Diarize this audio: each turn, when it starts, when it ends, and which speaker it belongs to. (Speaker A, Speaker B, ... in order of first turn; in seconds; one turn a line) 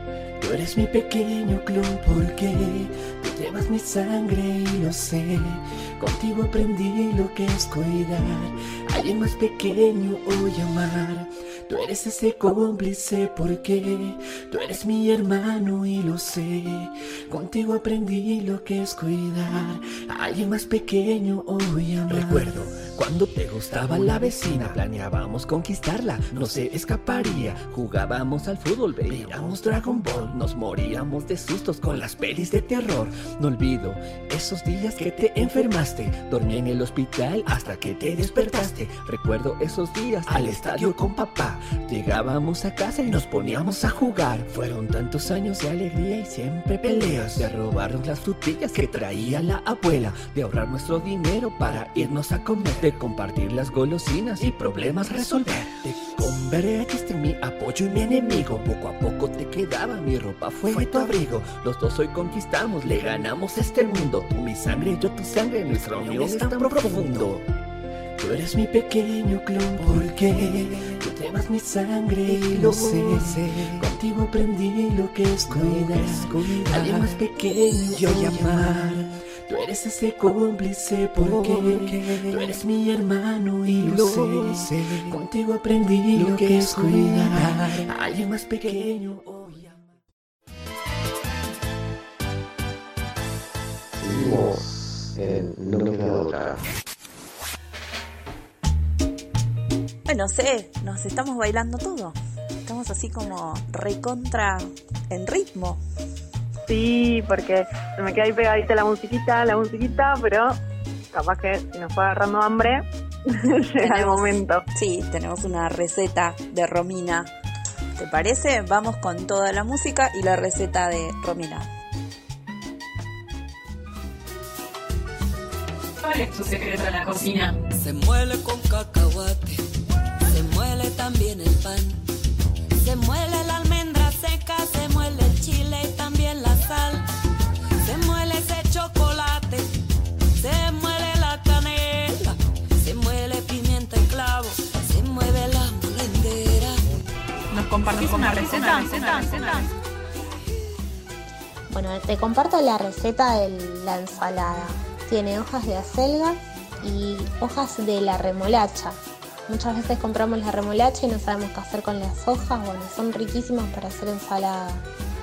Speaker A: 0.4-67.4
Speaker A: 68.2-89.8
Speaker B: 94.0-94.7
Speaker B: 95.2-96.5
Speaker C: 100.1-105.8
Speaker D: 106.7-110.6
Speaker D: 111.1-114.6
Speaker C: 113.8-117.3
Speaker C: 118.0-121.7
Speaker E: 126.0-127.5
Speaker F: 127.8-129.7
Speaker F: 130.3-132.0
Speaker F: 132.8-137.1
Speaker F: 137.8-139.7
Speaker F: 140.4-146.8
Speaker E: 147.5-149.7
Speaker G: 151.7-164.8